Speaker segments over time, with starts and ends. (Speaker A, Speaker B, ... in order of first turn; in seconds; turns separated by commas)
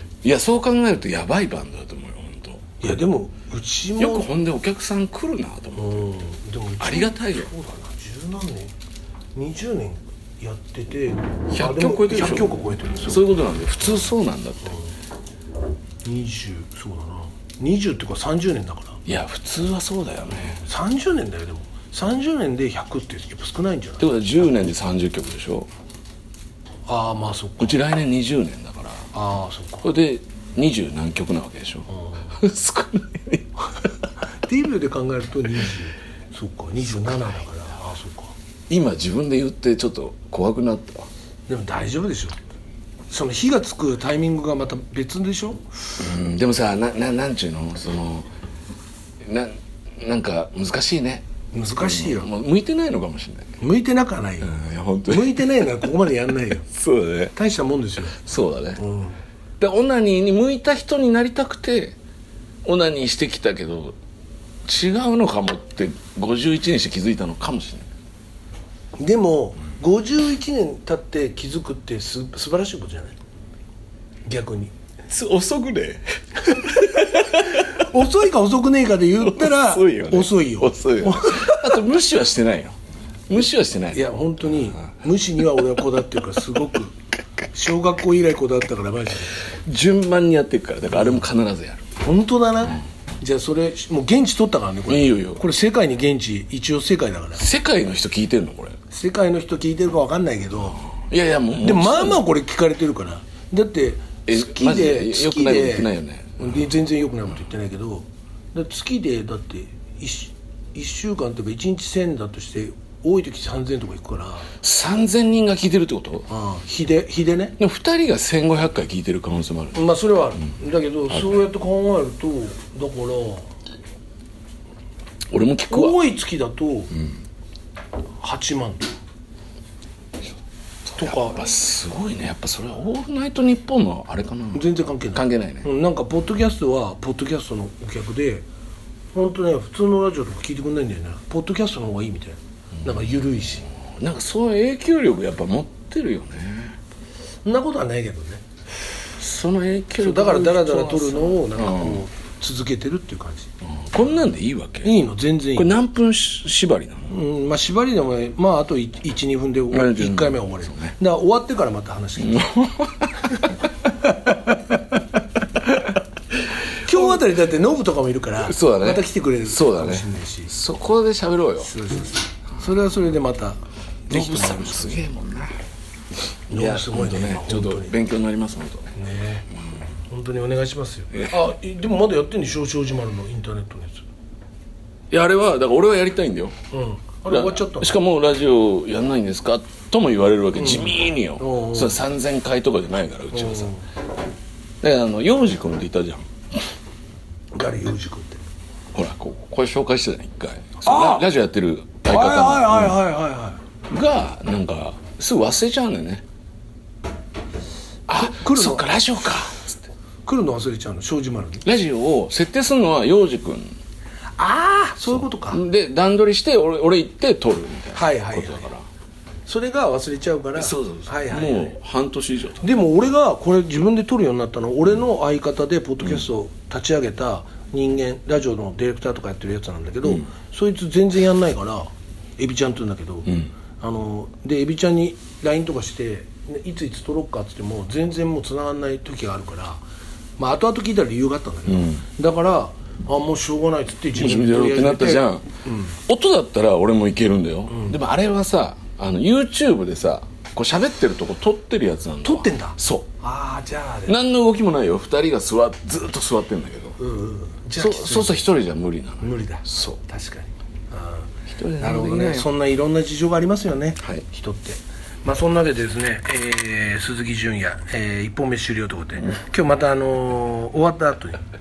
Speaker A: 0.2-2.6, Speaker B: 2.8-4.3, Speaker A: 4.0-6.0, Speaker B: 5.8-8.7, Speaker A: 6.8-7.5, Speaker B: 9.3-13.3, Speaker A: 11.5-14.8, Speaker B: 14.7-14.9, Speaker B: 16.0-19.0, Speaker A: 19.1-20.6, Speaker B: 20.6-24.1, Speaker A: 24.0-25.7, Speaker B: 26.9-27.8, Speaker A: 27.6-29.1, Speaker B: 29.1-29.9, Speaker A: 29.8-33.5, Speaker B: 31.9-32.3, Speaker B: 34.4-38.3, Speaker A: 38.7-41.1, Speaker B: 41.5-42.4, Speaker B: 43.1-45.6, Speaker A: 46.0-48.3, Speaker A: 49.2-51.3, Speaker B: 51.5-52.3, Speaker A: 51.8-53.5, Speaker B: 53.6-54.5, Speaker A: 54.4-55.9, Speaker B: 55.1-56.7, Speaker A: 56.7-57.3, Speaker B: 57.3-58.2, Speaker A: 58.2-58.8, Speaker B: 58.8-59.2, Speaker A: 59.6-62.0, Speaker A: 62.6-64.0, Speaker A: 64.7-67.9, Speaker B: 69.0-73.2, Speaker B: 74.3-74.7, Speaker A: 75.1-77.8, Speaker B: 76.7-81.8, Speaker A: 79.2-82.8, Speaker A: 83.3-84.0, Speaker B: 83.9-86.9, Speaker B: 87.5-89.4, Speaker A: 89.7-91.8, Speaker B: 92.0-97.4, Speaker A: 94.9-95.4, Speaker A: 97.4-98.8, Speaker B: 98.9-100.8, Speaker A: 100.9-102.2, Speaker B: 101.6-114.5, Speaker A: 104.3-106.5, Speaker A: 114.6-116.3, Speaker B: 116.3-117.6, Speaker A: 117.6-119.8, Speaker B: 119.7-123.5, Speaker A: 121.1-121.4, Speaker A: 125.3-126.0, Speaker B: 125.7-126.9, Speaker B: 128.2-128.8, Speaker A: 130.9-135.7, Speaker B: 131.0-131.4, Speaker B: 134.5-138.4, Speaker B: 139.1-143.7, Speaker A: 144.0-146.8, Speaker B: 147.4-148.4, Speaker A: 149.2-152.1, Speaker B: 150.0-153.5, Speaker A: 153.6-155.0, Speaker B: 154.8-155.8, Speaker A: 155.6-157.1, Speaker B: 157.1-162.5, Speaker A: 159.7-160.9, Speaker A: 162.2-163.5, Speaker A: 165.7-166.0, Speaker B: 166.8-170.5, Speaker A: 166.9-167.2, Speaker A: 168.4-171.7, Speaker B: 171.6-175.0, Speaker A: 174.1-175.6, Speaker B: 176.5-177.9, Speaker A: 176.5-178.9, Speaker B: 178.9-179.5, Speaker B: 180.1-184.0, Speaker A: 181.1-181.5, Speaker A: 185.1-186.6, Speaker B: 186.7-187.9, Speaker A: 187.3-193.7, Speaker B: 190.6-192.0, Speaker B: 193.3-193.8, Speaker A: 194.8-196.3, Speaker B: 197.6-198.4, Speaker A: 198.9-203.0, Speaker B: 200.8-201.3, Speaker B: 202.1-203.6, Speaker A: 203.9-206.2, Speaker A: 208.1-209.8, Speaker B: 208.1-208.9, Speaker B: 210.3-211.6, Speaker A: 211.6-213.8, Speaker B: 214.4-215.6, Speaker A: 215.0-218.8, Speaker B: 217.9-218.7, Speaker B: 219.5-221.8, Speaker A: 220.6-222.6, Speaker B: 222.6-239.8, Speaker B: 240.4-246.0, Speaker A: 241.7-242.0, Speaker A: 244.1-245.5, Speaker A: 246.1-253.1, Speaker B: 247.7-248.0, Speaker B: 252.2-254.2, Speaker A: 254.1-257.0, Speaker B: 257.0-258.4, Speaker A: 257.8-260.0, Speaker B: 259.2-271.4, Speaker A: 261.5-262.5, Speaker A: 264.0-264.2